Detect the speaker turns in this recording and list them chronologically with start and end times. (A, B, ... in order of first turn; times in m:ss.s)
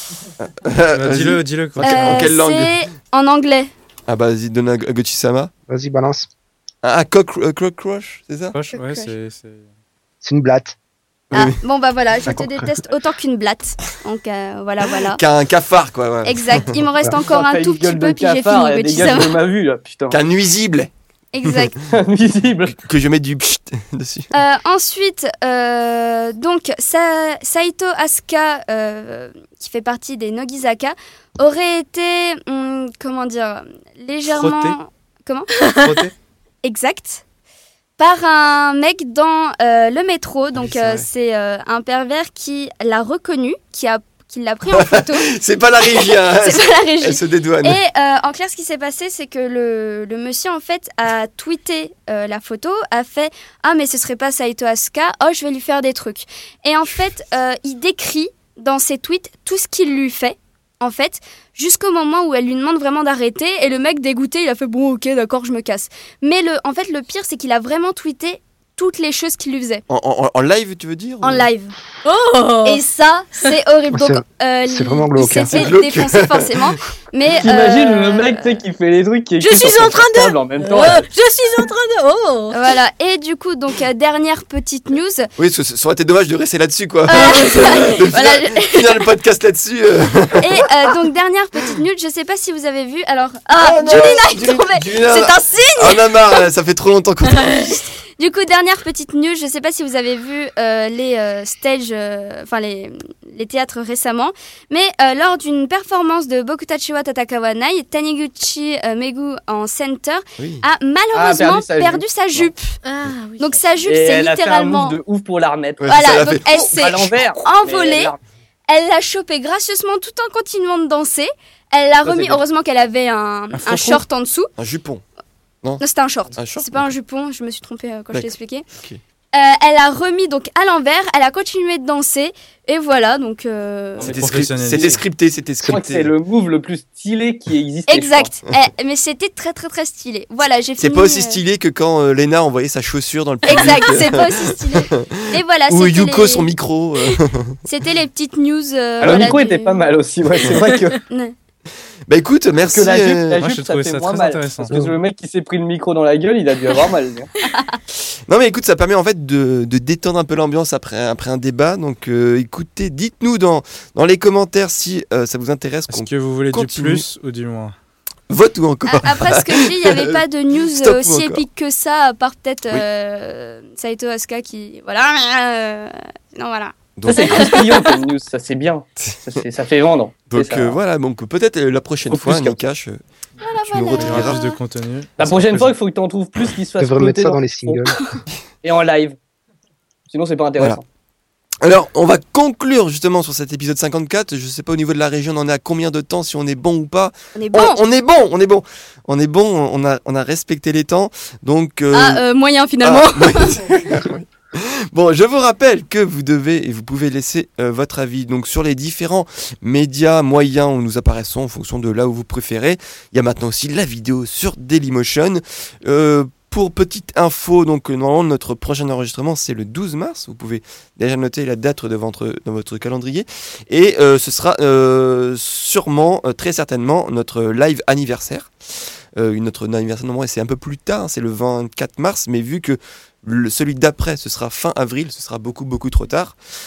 0:00.4-0:02.8 A
0:00.9-0:02.3 B
0:01.8-0:03.7 C
0:04.1-0:05.5 A
0:05.7-0:06.3 D
0:06.8-0:08.6 A
0:08.5-0:09.6 B
0:08.7-0:09.1 C
0:10.2-0:10.7 D
0:11.3-0:11.6 A
0:11.3-0:15.2 C
0:12.2-0:12.7 D
0:15.1-0:17.1 A
0:16.2-0:19.3 C
0:17.2-0:20.2 E
0:20.1-0:20.9 A
0:21.3-0:21.8 C
0:21.9-0:22.8 E
0:22.7-0:24.3 A
0:24.3-0:35.5 C
0:34.3-0:34.8 B
0:35.8-0:36.1 B
0:36.6-0:37.2 C
0:38.0-1:09.8 C
0:40.5-0:41.1 A
0:44.7-0:47.8 A
1:09.9-1:11.5 A
1:11.2-1:11.7 C
1:12.0-1:12.8 F
1:12.6-1:18.6 C
1:13.9-1:15.8 D
1:15.5-1:16.8 A
1:17.4-1:21.1 E
1:19.4-1:22.7 F
1:22.5-1:25.2 C
1:25.4-1:30.7 A
1:27.1-1:29.0 C
1:27.1-1:28.0 F
1:30.4-1:36.1 C
1:33.5-1:37.8 A
1:37.4-1:52.8 C
1:50.4-1:50.6 A
1:51.1-1:52.5 E
1:52.8-1:53.6 F
1:53.4-1:55.0 C
1:53.8-1:58.2 E
1:55.8-1:57.3 A
1:55.9-1:58.1 C
1:58.7-2:04.5 C
2:02.0-2:02.4 E
2:03.6-2:04.0 A
2:04.6-2:05.0 A
2:05.8-2:08.6 C
2:06.3-2:06.9 A
2:09.3-2:14.1 C
2:14.0-2:16.1 A
2:14.0-2:15.0 E
2:14.1-2:15.0 B
2:15.6-2:18.3 E
2:17.9-2:21.4 C
2:20.8-2:27.6 A
2:23.4-2:26.5 C
2:23.5-2:23.8 F
2:27.0-2:29.9 C
2:29.0-2:31.0 E
2:31.1-2:31.3 C
2:32.1-2:33.5 A
2:32.6-2:37.3 E
2:33.4-2:34.8 B
2:38.3-2:47.1 A
2:45.9-2:47.8 B
2:48.3-2:51.4 A
2:48.8-2:56.9 C
2:57.0-2:57.7 A
2:57.0-3:00.8 E
2:57.1-2:57.5 F
2:59.0-2:59.4 A
3:00.3-3:03.0 A
3:02.1-3:02.6 E
3:03.4-3:04.6 C
3:03.7-3:04.4 A
3:04.0-3:05.8 B
3:05.2-3:07.8 E
3:06.8-3:08.0 D
3:08.6-3:09.2 E
3:10.1-3:10.8 E
3:11.6-3:22.2 A
3:17.4-3:17.8 C
3:21.9-3:23.6 C
3:22.8-3:48.5 A
3:49.2-3:56.4 A